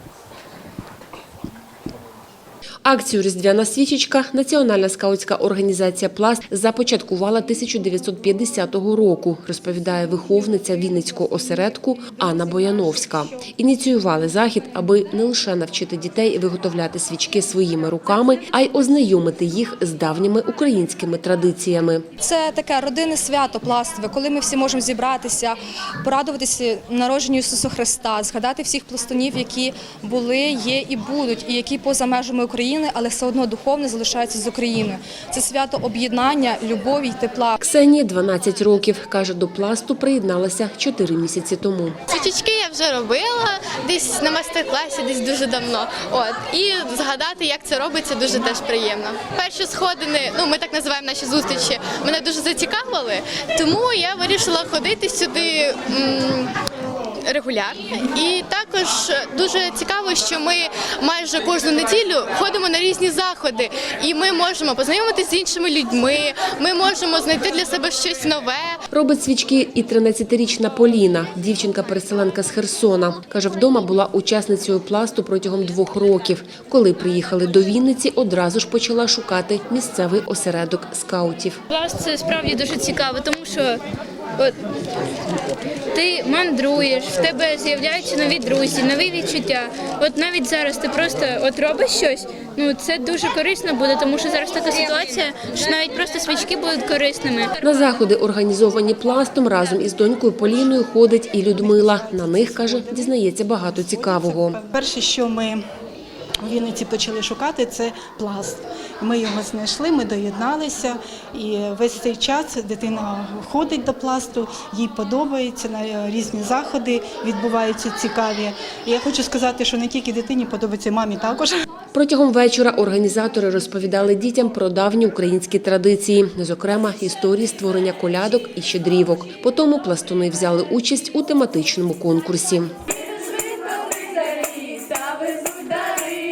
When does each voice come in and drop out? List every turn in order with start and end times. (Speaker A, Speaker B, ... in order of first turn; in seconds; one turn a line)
Speaker A: 2.9-22.0
Speaker B: 22.2-37.6
Speaker A: 37.6-42.0
Speaker C: 42.1-56.5
Speaker C: 57.2-68.8
Speaker A: 68.9-81.6
Speaker D: 81.7-83.8
Speaker D: 85.9-97.5
Speaker A: 97.6-104.6
Speaker E: 101.6-103.1
Speaker E: 103.7-105.6
Speaker E: 106.4-121.5
Speaker A: 121.9-132.7